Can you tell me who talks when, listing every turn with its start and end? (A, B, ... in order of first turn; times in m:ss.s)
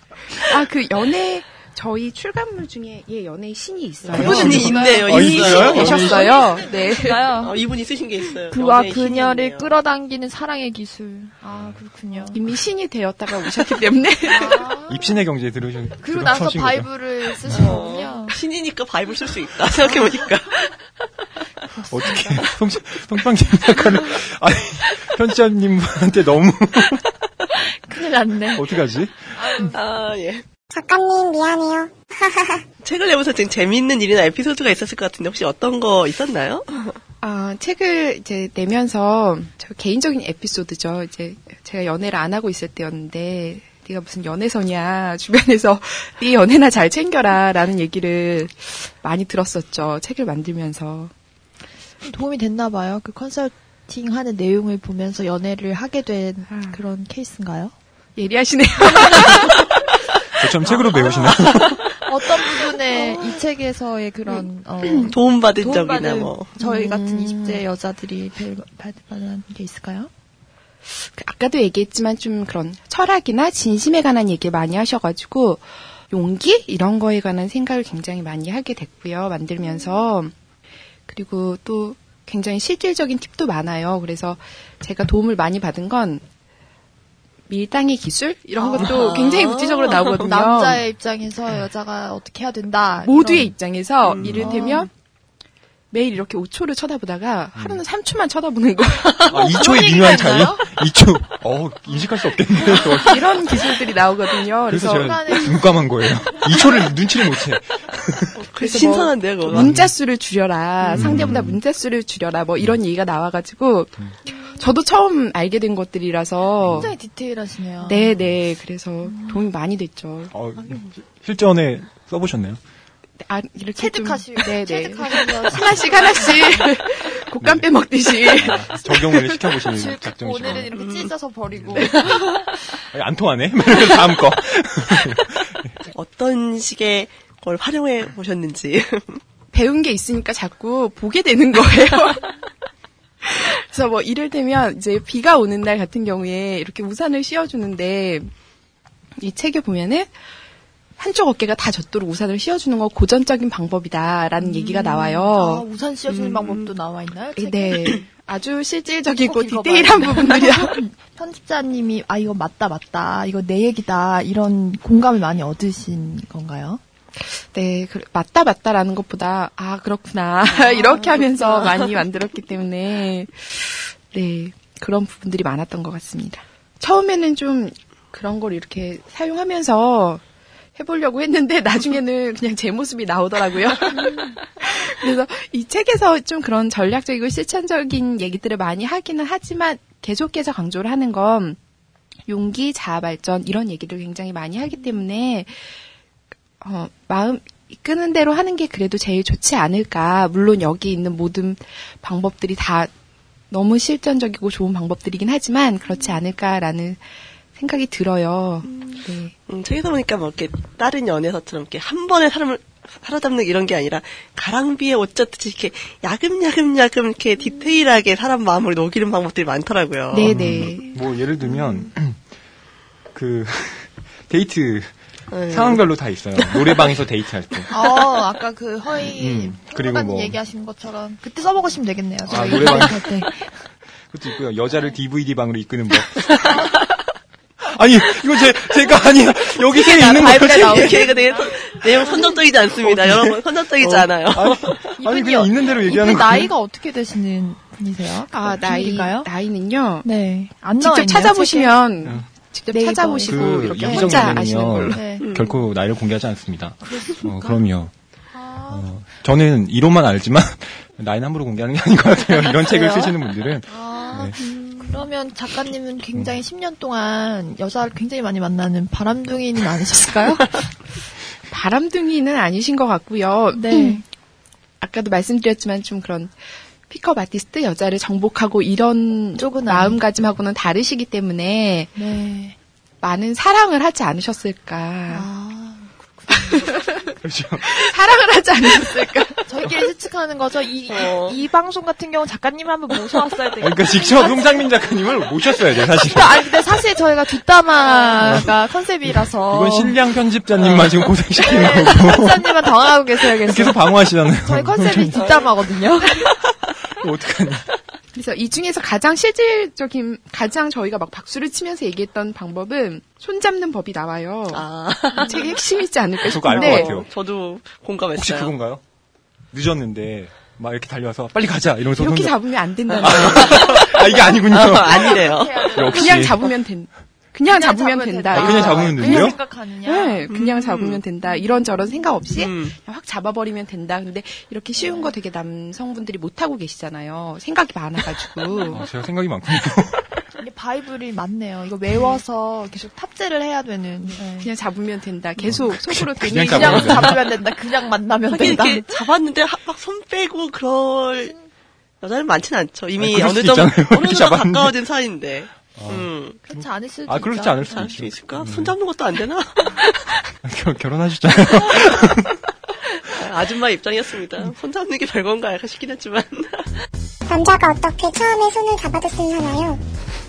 0:00.3-0:07.3 A
0:04.1-0:06.5 B
0:04.1-0:06.2 C
0:04.2-0:05.0 D
0:05.7-0:07.5 D
0:07.4-0:09.7 C
0:08.5-0:12.4 D
0:11.5-0:11.8 B
0:12.3-0:14.7 A
0:14.2-0:15.2 D
0:14.9-0:16.9 B
0:16.0-0:18.4 D
0:17.4-0:17.7 B
0:17.5-0:20.8 C
0:21.9-0:27.0 B
0:21.9-0:22.4 D
0:27.9-0:28.8 D
0:28.5-0:29.6 B
0:29.3-0:29.8 D
0:29.7-0:30.4 C
0:30.7-0:32.6 E
0:32.8-0:37.0 C
0:37.2-0:51.1 A
0:52.0-0:57.7 D
0:56.5-0:56.8 A
0:58.2-0:59.8 A
0:58.8-0:59.6 D
1:00.4-1:01.8 B
1:00.6-1:10.1 D
1:02.9-1:03.3 A
1:04.9-1:06.5 C
1:06.6-1:07.6 A
1:10.9-1:20.3 A
1:19.6-1:20.1 D
1:21.1-1:26.2 A
1:27.5-1:30.8 A
1:28.6-1:29.0 D
1:28.7-1:30.2 C
1:30.2-1:33.5 D
1:33.0-1:34.9 A
1:34.0-1:34.8 C
1:34.4-1:34.9 D
1:35.9-1:40.5 A
1:37.5-1:37.8 B
1:39.3-1:43.6 B
1:39.3-1:40.7 D
1:42.6-1:45.3 A
1:44.7-1:48.3 B
1:44.7-1:45.6 D
1:48.3-1:49.7 C
1:48.6-1:56.9 A
1:49.5-1:49.9 B
1:50.9-1:51.6 B
1:54.3-1:54.6 D
1:56.6-1:56.9 B
1:56.7-1:58.1 D
1:57.8-2:00.3 A
1:59.1-1:59.4 D
2:00.3-2:02.6 B
2:03.2-2:09.6 A
2:03.8-2:06.7 D
2:07.4-2:07.7 B
2:08.3-2:10.7 B
2:09.7-2:12.4 D
2:10.7-2:11.1 C
2:11.6-2:12.2 B
2:12.9-2:15.7 B
2:15.9-2:19.2 C
2:19.5-2:22.3 A
2:23.2-2:28.3 A
2:29.2-2:30.1 A
2:31.0-2:35.6 A
2:34.4-2:38.0 D
2:36.3-2:36.7 C
2:37.4-2:40.8 A
2:39.1-2:46.8 D
2:47.2-3:00.2 A
2:50.8-2:51.2 D
3:00.8-3:11.6 A
3:03.9-3:04.3 D
3:12.3-3:15.8 A
3:16.6-3:22.9 A
3:23.5-3:27.0 A
3:27.6-3:29.3 A
3:29.5-3:40.4 C
3:40.1-3:40.9 A
3:40.2-3:42.2 B
3:41.4-3:41.9 D
3:43.1-3:45.0 B
3:45.3-3:45.8 C
3:45.5-3:47.7 B
3:46.4-3:46.9 C
3:47.7-3:53.5 D
3:49.2-3:50.4 B
3:52.2-3:53.0 B
3:54.1-3:56.8 B
3:57.6-4:01.1 B
3:59.6-4:02.3 D
4:00.6-4:04.8 C
4:02.8-4:06.5 B
4:05.0-4:09.3 D
4:08.3-4:10.0 A
4:10.0-4:11.8 D
4:10.8-4:15.0 A
4:12.0-4:12.3 B
4:12.7-4:15.3 D
4:13.2-4:17.9 B
4:15.2-4:15.5 C
4:16.8-4:17.6 D
4:18.3-4:18.9 D
4:18.7-4:24.4 B
4:22.5-4:23.1 D
4:23.7-4:30.7 D
4:31.5-4:34.0 A
4:33.5-4:34.0 D
4:34.8-4:41.9 A
4:39.4-4:40.0 D
4:42.0-4:42.5 D
4:43.0-4:45.3 A
4:45.1-4:46.9 D
4:46.3-4:47.1 A
4:47.2-4:47.6 B
4:47.6-4:49.4 A
4:49.4-4:54.7 D
4:50.9-4:51.4 C
4:53.6-4:56.6 B
4:56.0-5:00.0 D
4:58.2-4:58.5 B
4:59.1-5:02.5 B
5:00.6-5:01.1 C
5:01.4-5:06.2 D
5:03.4-5:05.2 B
5:05.2-5:05.4 C
5:06.9-5:07.7 B
5:08.1-5:17.0 A
5:14.5-5:15.5 C
5:15.1-5:15.5 D
5:16.2-5:17.1 B
5:16.2-5:18.5 C
5:18.2-5:18.8 B
5:19.5-5:22.4 B
5:21.9-5:24.2 A
5:22.9-5:25.8 C
5:23.0-5:26.4 B
5:24.9-5:26.3 D
5:25.8-5:38.8 A
5:27.5-5:30.3 D
5:28.3-5:29.4 B
5:30.3-5:31.0 C
5:31.2-5:31.6 D
5:32.4-5:32.7 C
5:34.8-5:35.1 D
5:38.5-5:38.8 D
5:38.7-5:40.2 B
5:40.4-5:44.5 D
5:44.4-5:47.2 A
5:45.4-5:47.2 B
5:46.5-5:48.9 D
5:48.3-5:51.3 C
5:51.2-5:51.4 D
5:52.0-5:56.4 C
5:53.0-5:54.7 B
5:55.7-5:58.7 B
5:56.5-5:57.9 D
5:57.7-6:00.1 C
6:00.4-6:02.4 B
6:02.8-6:06.8 C
6:07.3-6:09.8 E